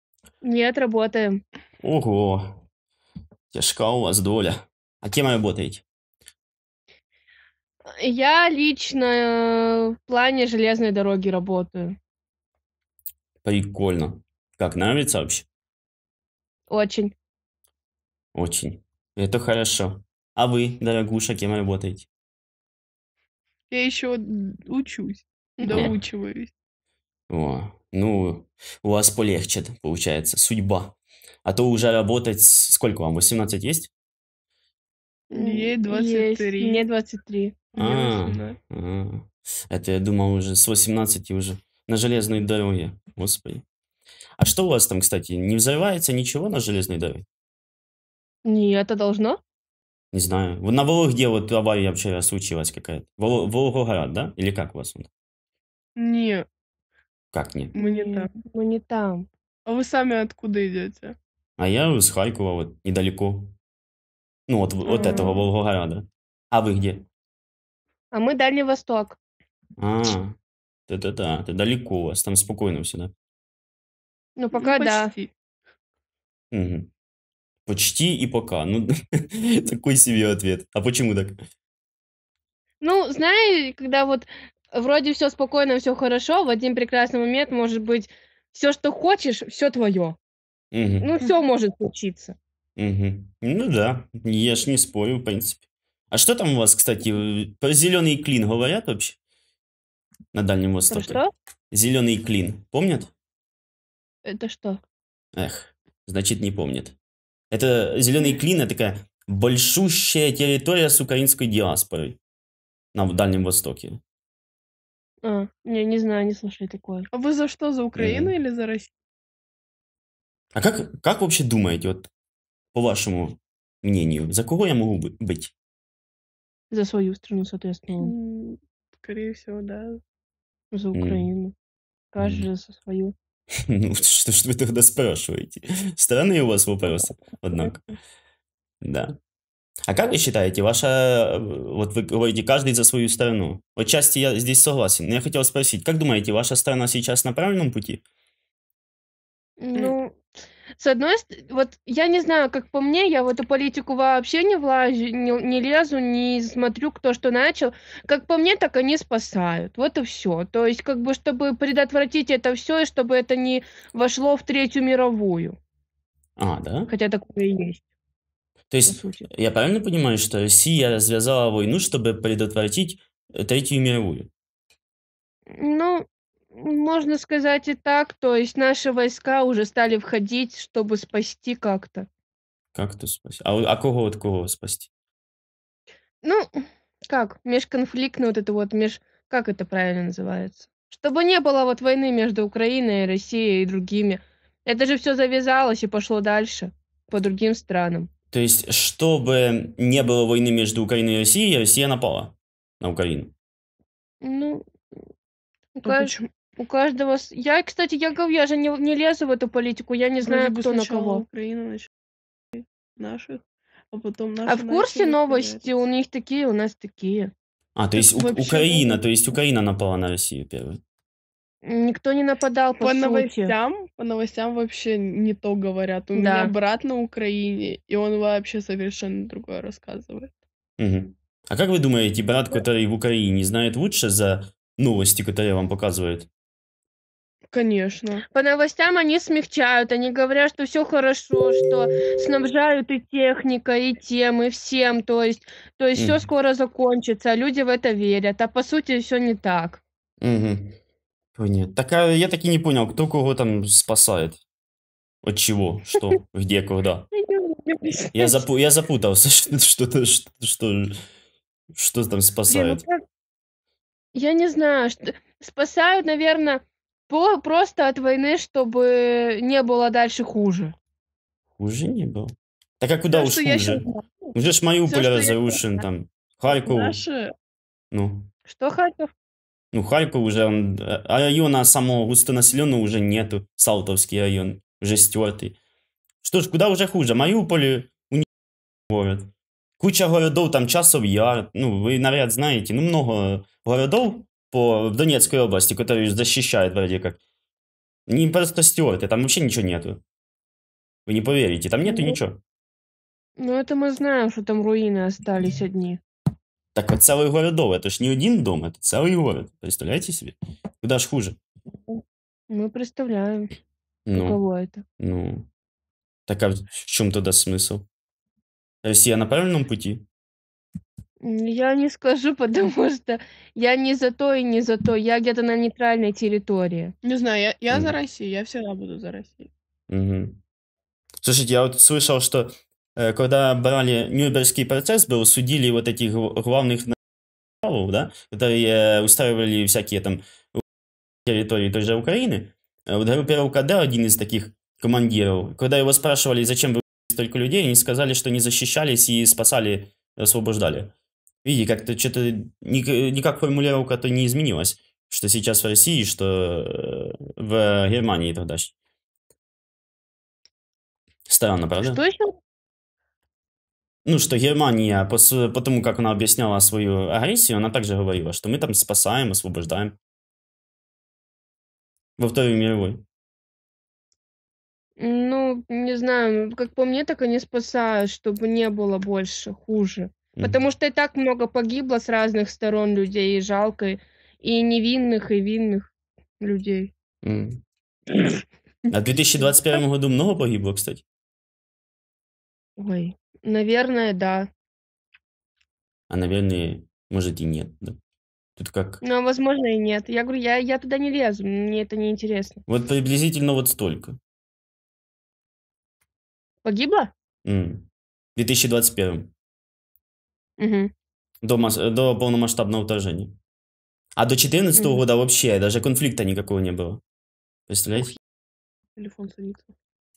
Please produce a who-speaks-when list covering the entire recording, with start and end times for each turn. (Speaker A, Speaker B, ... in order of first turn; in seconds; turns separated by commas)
Speaker A: 0.4-1.4, Speaker B: 1.8-2.6, Speaker B: 3.5-5.8, Speaker A: 8.0-12.0, Speaker B: 13.4-15.5, Speaker A: 16.7-17.1, Speaker B: 18.3-22.1, Speaker C: 23.7-26.5, Speaker A: 25.6-25.9, Speaker B: 25.7-26.0, Speaker B: 27.3-33.9, Speaker C: 35.3-36.8, Speaker A: 35.3-37.6, Speaker C: 37.7-38.6, Speaker B: 37.8-43.6, Speaker B: 44.4-47.2, Speaker A: 48.4-49.4, Speaker B: 50.1-55.1, Speaker C: 56.0-56.5, Speaker B: 57.3-57.7, Speaker C: 57.7-58.3, Speaker A: 57.8-59.3, Speaker C: 59.6-61.1, Speaker B: 61.6-63.5, Speaker B: 64.5-67.0, Speaker A: 64.9-65.5, Speaker A: 68.1-69.2, Speaker B: 69.8-70.4, Speaker B: 70.9-73.1, Speaker A: 74.4-75.1, Speaker C: 74.5-75.3, Speaker B: 76.5-76.9, Speaker B: 77.7-81.3, Speaker A: 82.8-90.2, Speaker B: 90.7-91.1, Speaker A: 91.0-92.3, Speaker B: 92.8-99.2, Speaker B: 100.3-101.2, Speaker A: 100.9-101.3, Speaker B: 101.7-103.1, Speaker A: 104.2-104.8, Speaker B: 105.3-107.0, Speaker B: 107.5-112.2, Speaker B: 112.9-114.0, Speaker A: 115.2-117.1, Speaker C: 117.1-118.9, Speaker B: 118.0-118.3, Speaker B: 120.5-122.1, Speaker B: 122.7-125.5, Speaker A: 126.7-128.1, Speaker C: 128.0-130.0, Speaker A: 130.7-131.5, Speaker B: 130.9-131.3, Speaker A: 132.1-133.1, Speaker B: 132.2-132.4, Speaker B: 133.7-137.8, Speaker B: 138.8-139.2, Speaker B: 139.9-148.0, Speaker A: 149.6-150.2, Speaker A: 150.8-165.6, Speaker B: 166.4-166.9, Speaker A: 166.9-167.8, Speaker B: 168.7-174.3, Speaker A: 168.9-169.3, Speaker A: 175.5-182.1, Speaker B: 182.7-184.9, Speaker A: 186.2-186.5, Speaker A: 187.0-198.1, Speaker B: 198.3-203.3, Speaker A: 204.2-204.6, Speaker A: 205.7-211.2, Speaker C: 205.8-206.3, Speaker C: 210.2-211.9, Speaker C: 212.5-215.6, Speaker A: 214.5-217.3, Speaker B: 217.8-220.8, Speaker C: 218.0-219.0, Speaker A: 221.6-223.5, Speaker C: 222.8-230.3, Speaker A: 226.1-226.5, Speaker B: 230.8-236.3, Speaker C: 237.5-238.2, Speaker A: 238.3-249.8, Speaker B: 245.9-246.2, Speaker B: 250.2-250.8, Speaker B: 251.4-254.4, Speaker B: 255.2-257.1, Speaker A: 257.1-258.4, Speaker B: 258.1-261.0, Speaker B: 261.7-262.8, Speaker C: 262.5-263.0, Speaker A: 264.1-270.7, Speaker B: 271.6-277.0, Speaker C: 273.1-273.8, Speaker C: 274.9-275.4, Speaker C: 276.6-277.3, Speaker B: 277.9-278.3, Speaker A: 278.5-279.1, Speaker B: 279.7-285.6, Speaker B: 286.2-288.3, Speaker B: 288.9-297.2, Speaker B: 298.1-300.0, Speaker B: 301.1-302.4, Speaker A: 301.8-302.2, Speaker A: 303.4-306.0, Speaker B: 306.7-311.4, Speaker A: 311.9-313.5, Speaker B: 314.1-314.4, Speaker A: 314.1-314.8, Speaker B: 315.0-315.5, Speaker B: 316.3-317.9, Speaker B: 318.8-320.0, Speaker A: 321.2-326.9, Speaker C: 327.0-329.5, Speaker B: 327.7-327.9, Speaker B: 329.9-330.4, Speaker B: 331.2-336.9, Speaker B: 337.6-340.6, Speaker B: 341.2-350.9, Speaker B: 351.4-358.7, Speaker B: 361.3-362.0, Speaker A: 361.8-362.4, Speaker B: 364.1-370.0, Speaker B: 372.2-373.0, Speaker A: 375.0-385.9, Speaker A: 386.4-386.9, Speaker B: 387.2-387.6, Speaker B: 388.9-391.0, Speaker A: 392.8-394.5, Speaker B: 396.1-398.0, Speaker B: 398.6-399.0, Speaker A: 399.0-402.6, Speaker B: 402.7-404.2, Speaker A: 406.6-407.1, Speaker B: 407.4-409.3, Speaker A: 410.6-410.9, Speaker B: 411.4-413.4, Speaker B: 414.1-417.0, Speaker A: 414.8-415.0, Speaker B: 417.7-418.1, Speaker C: 418.9-419.7